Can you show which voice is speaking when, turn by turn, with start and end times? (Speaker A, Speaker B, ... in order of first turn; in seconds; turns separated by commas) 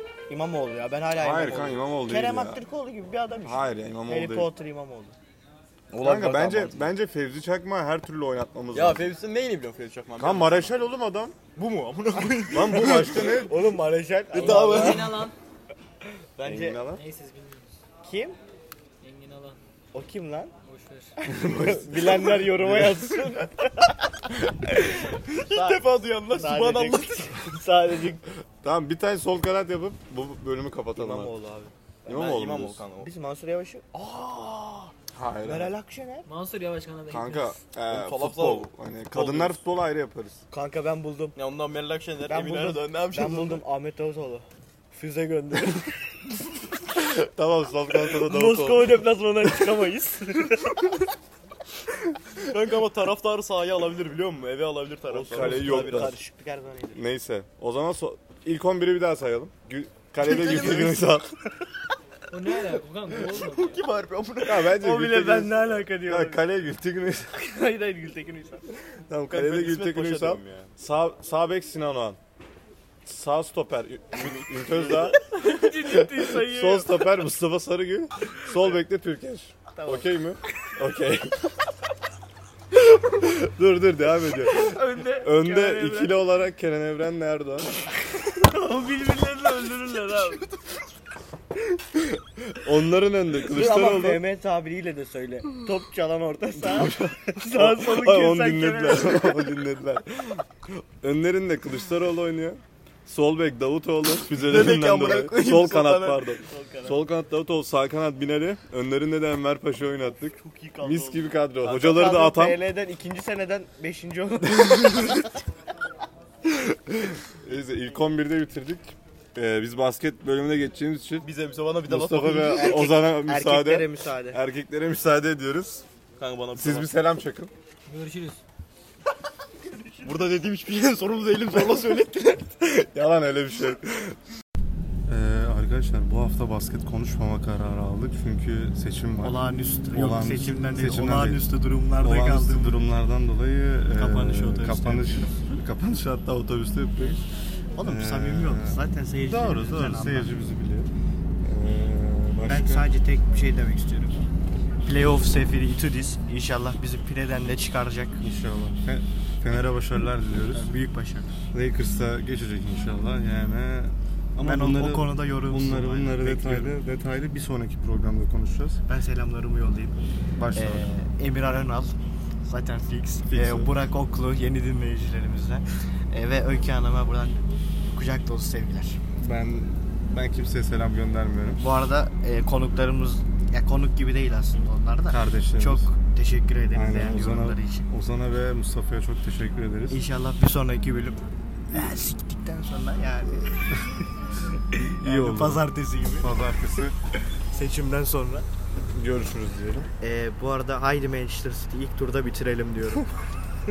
Speaker A: 0.3-5.1, Speaker B: 1.1-2.6, Speaker B: 3.4-4.5, Speaker C: 5.9-6.9, Speaker B: 6.0-9.1, Speaker C: 8.7-10.7, Speaker B: 10.2-11.3, Speaker C: 11.6-13.4, Speaker B: 12.5-13.6, Speaker A: 12.8-15.2, Speaker C: 14.3-15.3, Speaker D: 14.3-15.3, Speaker A: 16.4-16.8, Speaker B: 16.4-17.0, Speaker D: 16.9-17.6, Speaker A: 18.0-18.4, Speaker D: 19.0-19.6, Speaker A: 19.9-20.5, Speaker D: 20.6-21.1, Speaker A: 21.2-24.1, Speaker B: 21.3-23.3, Speaker A: 24.7-28.2, Speaker C: 25.1-27.2, Speaker B: 28.6-31.3, Speaker A: 30.9-31.7, Speaker B: 32.0-32.8, Speaker C: 32.1-33.1, Speaker A: 33.0-36.2, Speaker B: 35.1-35.7, Speaker D: 36.2-37.6, Speaker B: 37.1-40.4, Speaker C: 37.9-39.6, Speaker A: 40.5-41.4, Speaker C: 41.4-43.6, Speaker A: 42.2-46.1, Speaker B: 47.2-49.6, Speaker A: 48.0-50.9, Speaker C: 52.4-56.1, Speaker A: 55.1-57.0, Speaker B: 55.2-56.2, Speaker B: 57.0-61.2, Speaker C: 60.2-61.1, Speaker A: 60.3-61.0, Speaker D: 62.3-63.8, Speaker C: 63.1-64.7, Speaker B: 64.5-67.3, Speaker A: 64.7-66.4, Speaker A: 67.3-68.7, Speaker B: 69.1-72.2, Speaker C: 69.3-70.7, Speaker B: 73.0-75.2, Speaker C: 74.2-75.1, Speaker A: 75.2-77.1, Speaker B: 75.7-81.4, Speaker A: 79.7-80.1, Speaker B: 83.1-87.7, Speaker A: 84.6-86.1, Speaker A: 88.3-90.4, Speaker B: 92.6-94.2, Speaker A: 93.4-99.5, Speaker B: 96.6-100.4, Speaker B: 101.0-112.6, Speaker C: 104.3-106.3, Speaker A: 106.4-107.0, Speaker A: 110.4-115.3, Speaker C: 111.6-111.9, Speaker B: 114.6-115.0, Speaker B: 117.1-121.3, Speaker C: 121.2-122.9, Speaker B: 121.9-125.8, Speaker A: 122.5-124.4, Speaker C: 126.2-126.9, Speaker B: 126.5-127.5, Speaker D: 127.9-128.4, Speaker C: 130.0-132.6, Speaker B: 132.8-134.2, Speaker B: 135.1-139.4, Speaker A: 139.2-142.8, Speaker B: 139.9-141.5, Speaker B: 142.0-147.2, Speaker A: 143.9-145.3, Speaker A: 147.8-150.3, Speaker B: 147.8-150.9, Speaker B: 151.4-152.9, Speaker A: 152.4-154.2, Speaker A: 154.8-158.2, Speaker B: 158.2-160.7, Speaker A: 160.5-161.4, Speaker B: 161.5-168.8, Speaker A: 164.4-166.7, Speaker A: 168.9-170.0, Speaker B: 170.3-170.9, Speaker A: 170.5-179.0, Speaker B: 173.3-173.7, Speaker B: 179.2-181.6, Speaker A: 181.6-187.9, Speaker B: 185.1-185.9, Speaker B: 186.7-190.0, Speaker A: 189.9-193.5, Speaker A: 194.8-196.3, Speaker B: 195.0-195.6, Speaker B: 196.2-196.9, Speaker A: 197.5-198.5, Speaker B: 198.9-199.9, Speaker A: 200.0-203.1